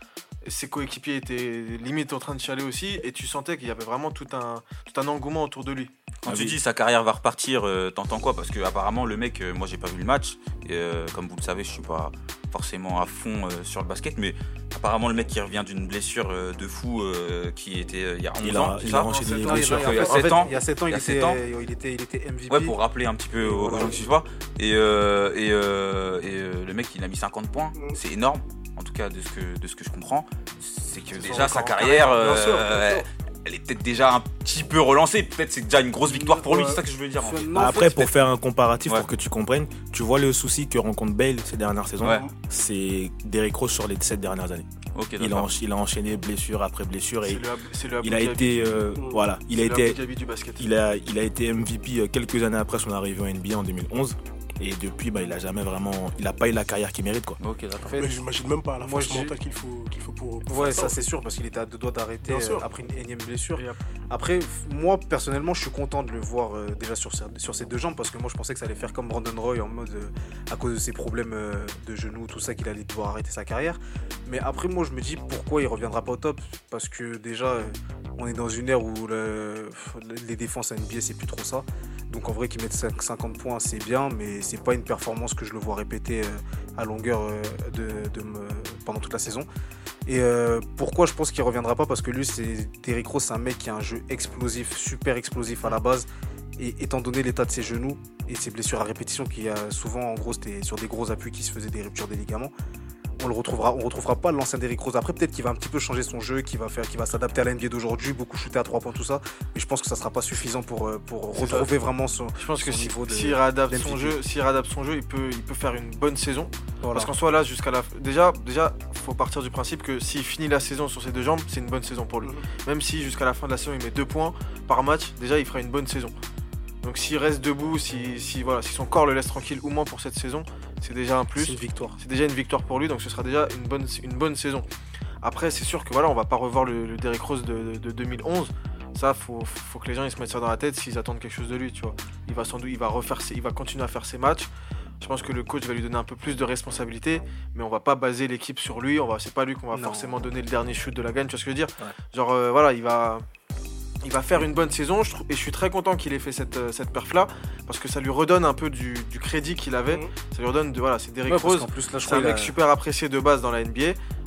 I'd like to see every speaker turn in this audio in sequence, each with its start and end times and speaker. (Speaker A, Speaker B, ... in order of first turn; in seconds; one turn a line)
Speaker A: 0.4-5.9
Speaker B: 6.2-21.4
Speaker C: 6.3-6.6
Speaker C: 18.4-20.1
Speaker D: 19.1-22.8
Speaker B: 22.5-38.0
Speaker D: 23.4-24.0
Speaker D: 31.2-32.7
Speaker E: 32.2-32.7
Speaker D: 36.1-38.1
Speaker C: 37.6-44.7
Speaker E: 42.0-42.3
Speaker B: 45.0-45.5
Speaker C: 45.2-47.5
Speaker A: 47.2-48.9
Speaker C: 48.0-50.0
Speaker E: 49.0-49.2
Speaker A: 49.5-50.7
Speaker C: 50.6-57.4
Speaker B: 57.4-58.0
Speaker D: 57.8-58.2
Speaker E: 58.0-61.0
Speaker D: 58.8-59.4
Speaker D: 60.5-89.5
Speaker E: 62.2-62.6
Speaker D: 90.1-96.1
Speaker D: 96.6-102.5
Speaker D: 103.2-114.2
Speaker A: 111.4-111.7
Speaker A: 112.4-126.2
Speaker D: 116.8-117.1
Speaker A: 126.8-134.7
Speaker D: 131.4-132.0
Speaker A: 135.2-144.5
Speaker A: 145.0-153.2
Speaker D: 149.7-150.2
Speaker A: 154.0-164.0
Speaker D: 161.3-162.6